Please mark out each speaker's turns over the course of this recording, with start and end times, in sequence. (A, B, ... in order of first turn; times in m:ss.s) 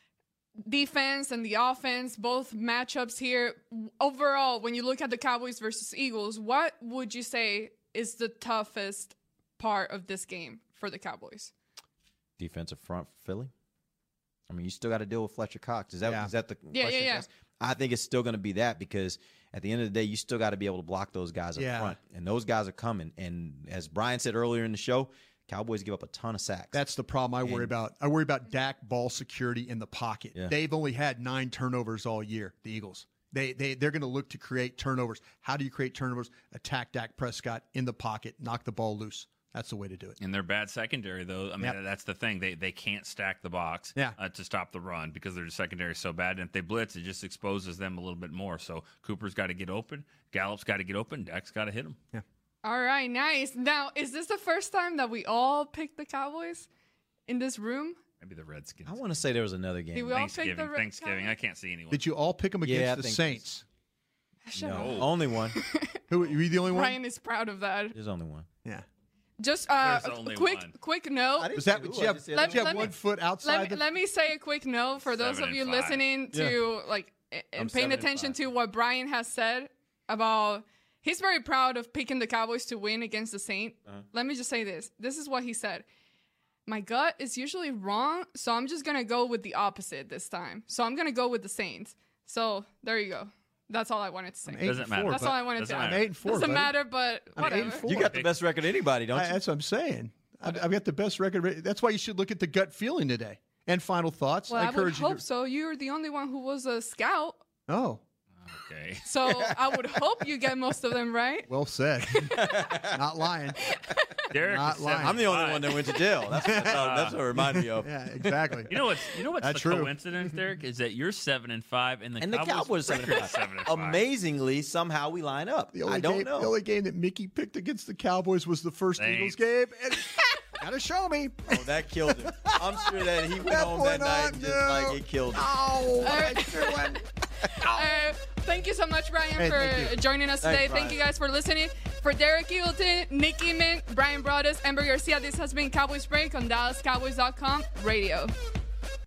0:00.6-0:11.5 A
0:12.4-0:13.5 B
0:14.5-0:26.8 B
0:16.0-0:16.3 C
0:16.7-0:17.2 A
0:21.6-0:22.0 C
0:26.7-0:40.2 C
0:27.4-0:27.7 B
0:40.2-0:52.0 D
0:52.6-0:56.7 A
0:57.3-0:58.0 A
0:58.2-0:59.0 D
0:58.8-1:00.3 B
0:59.9-1:01.3 A
1:00.1-1:02.0 D
1:01.9-1:03.6 C
1:02.6-1:03.4 B
1:04.4-1:06.0 A
1:04.5-1:05.6 B
1:04.7-1:05.1 D
1:06.1-1:07.0 C
1:06.7-1:08.0 A
1:07.9-1:08.5 B
1:09.4-1:11.6 A
1:09.8-1:10.7 D
1:11.4-1:13.0 B
1:11.5-1:13.8 C
1:12.3-1:12.9 A
1:13.4-1:25.8 A
1:15.0-1:16.0 D
1:16.3-1:16.6 C
1:17.6-1:18.4 B
1:26.6-1:37.8 A
1:34.5-1:36.8 C
1:34.6-1:36.1 D
1:37.4-1:38.2 C
1:37.4-1:39.4 B
1:37.9-1:38.3 D
1:39.1-1:45.2 C
1:44.5-1:47.4 A
1:47.7-1:48.0 C
1:48.4-1:49.0 D
1:49.0-1:51.5 A
1:49.3-1:49.7 B
1:51.5-1:53.6 C
1:52.3-1:53.0 B
1:53.7-1:54.0 A
1:54.3-1:57.2 D
1:54.3-1:55.2 C
1:55.0-1:58.7 B
1:56.4-1:58.7 C
1:58.7-2:04.0 D
1:59.4-1:59.9 C
2:02.2-2:06.5 B
2:05.7-2:17.0 C
2:09.0-2:09.4 D
2:11.5-2:16.4 B
2:16.0-2:28.3 A
2:17.6-2:18.0 C
2:19.4-2:20.0 C
2:20.4-2:21.0 B